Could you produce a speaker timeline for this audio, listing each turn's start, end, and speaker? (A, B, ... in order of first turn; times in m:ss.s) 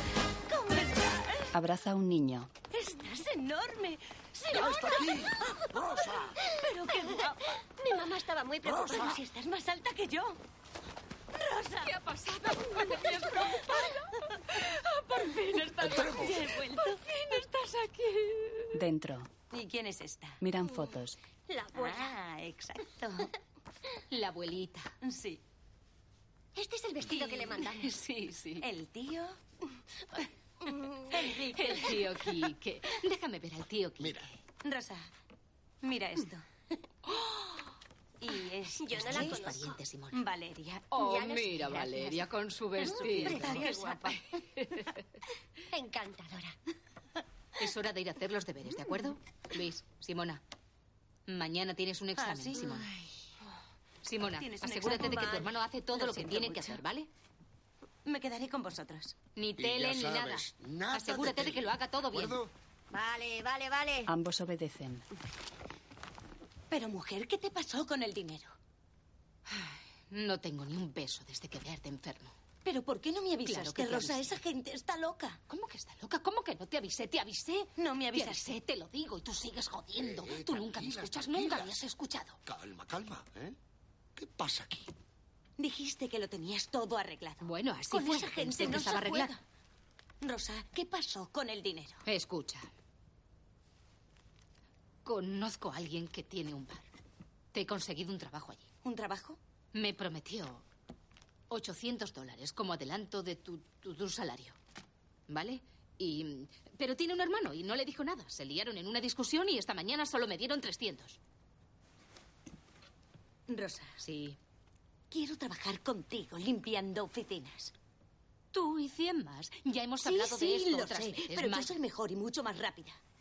0:00.5-0:01.5 A
0:01.5-0:02.5 B
0:02.7-0:05.3 A
0:04.6-0:05.1 C
0:06.6-0:07.5 A
0:07.8-0:09.2 D
0:08.7-0:10.4 A
0:11.3-0:11.9 A
0:11.8-0:16.3 E
0:15.6-0:17.0 A
0:16.9-0:18.7 E
0:18.8-0:19.3 B
0:19.5-0:20.4 A
0:20.4-0:21.2 B
0:21.5-0:22.2 D
0:21.7-0:23.3 A
0:24.1-0:24.9 E
0:25.0-0:25.4 A
0:26.6-0:27.9 D
0:27.0-0:27.6 A
0:27.6-0:28.6 E
0:28.6-0:29.4 A
0:31.1-0:31.9 A
0:31.5-0:34.3 E
0:34.0-0:34.3 C
0:34.6-0:35.1 A
0:35.8-0:36.4 A
0:38.2-0:39.4 A
0:38.8-0:39.8 D
0:38.9-0:40.2 E
0:40.1-0:41.0 A
0:40.9-0:44.9 E
0:41.0-0:41.8 D
0:41.8-0:42.1 A
0:42.8-0:44.0 D
0:42.9-0:43.9 A
0:45.7-0:46.6 D
0:47.6-0:50.4 E
0:51.3-0:52.9 E
0:52.2-0:53.1 A
0:54.0-0:57.1 E
0:54.2-0:56.8 A
0:58.0-0:59.2 A
0:59.4-1:02.4 E
0:59.6-1:02.5 C
1:02.9-1:04.1 D
1:04.1-1:05.0 B
1:06.7-1:08.5 A
1:09.5-1:12.4 E
1:12.6-1:15.4 A
1:13.4-1:14.4 E
1:15.5-1:22.4 E
1:17.8-1:18.5 A
1:20.0-1:21.8 C
1:22.5-1:23.6 C
1:24.2-1:24.9 C
1:25.6-1:29.4 A
1:27.4-1:29.3 E
1:30.2-1:32.0 A
1:32.0-1:32.7 E
1:35.0-1:36.9 E
1:37.5-1:38.7 E
1:38.8-1:39.4 A
1:39.7-1:40.6 E
1:41.5-1:44.6 E
1:45.3-1:51.2 E
1:53.5-1:54.0 A
1:54.0-1:54.4 E
1:55.1-1:57.7 A
1:58.5-2:01.8 E
2:00.0-2:03.0 A